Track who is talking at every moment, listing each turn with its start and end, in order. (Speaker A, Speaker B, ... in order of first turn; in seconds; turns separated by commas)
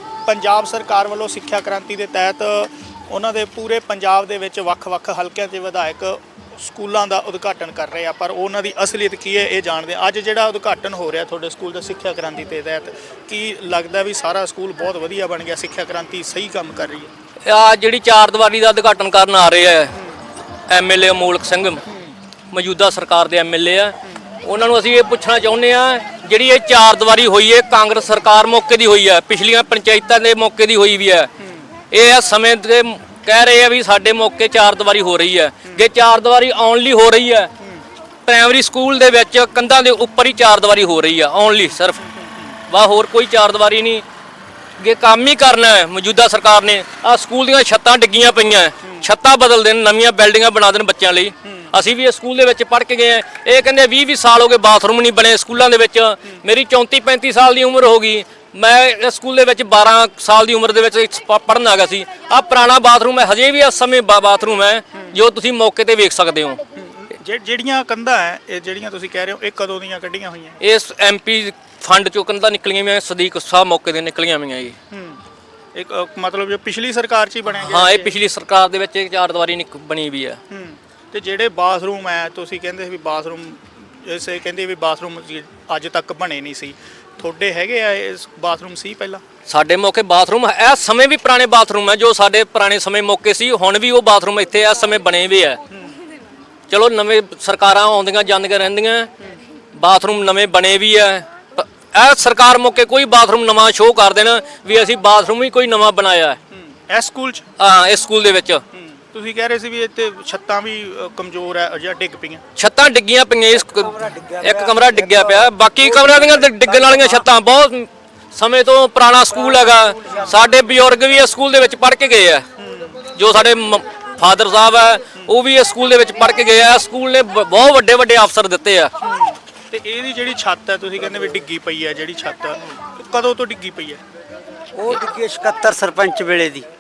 Speaker A: 0.3-17.1, Speaker B: 17.4-19.9, Speaker B: 20.7-21.8, Speaker B: 22.5-31.3, Speaker B: 31.9-37.5, Speaker B: 38.3-42.0, Speaker A: 42.0-42.5, Speaker B: 42.7-44.0, Speaker B: 44.8-66.6, Speaker A: 66.8-70.6, Speaker B: 70.6-74.8, Speaker A: 74.9-75.2, Speaker A: 75.7-78.1, Speaker B: 77.5-80.4, Speaker A: 80.5-89.2, Speaker B: 89.5-95.6, Speaker B: 96.7-99.1, Speaker B: 99.8-106.4, Speaker A: 106.5-107.5, Speaker B: 107.6-108.6, Speaker A: 108.7-112.4, Speaker B: 112.6-122.4, Speaker C: 113.5-117.3, Speaker C: 119.3-120.3, Speaker A: 122.6-123.0, Speaker B: 123.1-128.9, Speaker A: 129.0-134.0, Speaker C: 134.8-136.7